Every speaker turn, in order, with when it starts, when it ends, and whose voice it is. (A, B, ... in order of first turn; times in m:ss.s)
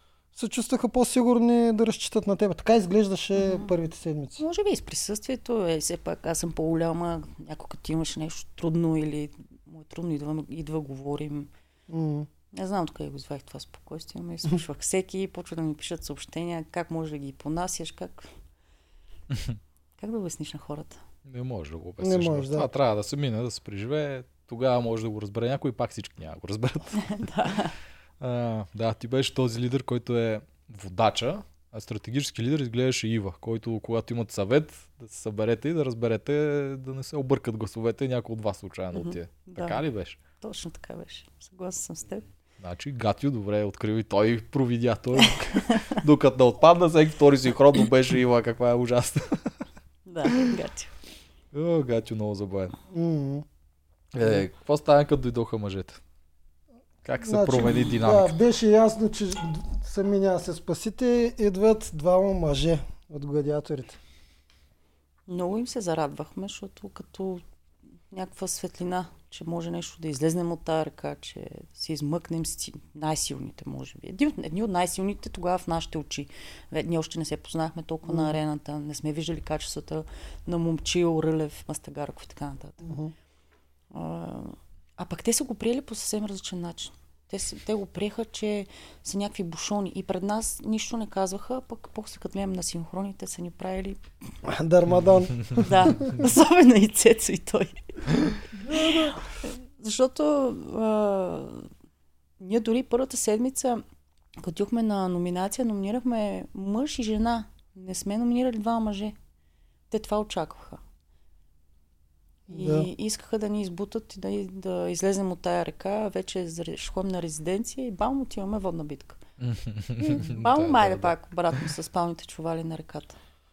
0:00.4-0:04.4 A
0:03.3-0:03.7 B
0:04.4-0:11.5 B
0:11.9-0:12.3 A
0:12.5-0:18.3 B
0:19.3-0:19.6 C
0:20.0-0:21.0 B
0:21.3-0:27.2 C
0:22.0-0:22.7 A
0:27.0-0:27.8 B
0:28.2-0:40.2 C
0:38.9-0:39.8 B
0:40.4-0:42.3 B
0:42.6-0:49.5 C
0:50.1-0:50.9 B
0:51.5-0:52.8 C
0:52.9-0:53.4 A
0:54.1-0:56.0 C
0:57.0-0:58.4 C
0:57.2-1:04.0 A
1:05.3-1:07.4 B
1:08.1-1:22.9 B
1:18.1-1:18.4 A
1:22.8-1:23.1 A
1:23.9-1:34.0 B
1:34.4-1:36.1 A
1:35.6-1:37.8 B
1:38.6-1:39.2 A
1:38.7-1:41.7 B
1:42.4-1:43.8 B
1:44.4-1:49.2 B
1:49.9-1:50.8 B
1:52.5-1:52.9 A
1:52.5-1:59.2 B
1:59.4-2:01.1 C
2:00.0-2:03.2 B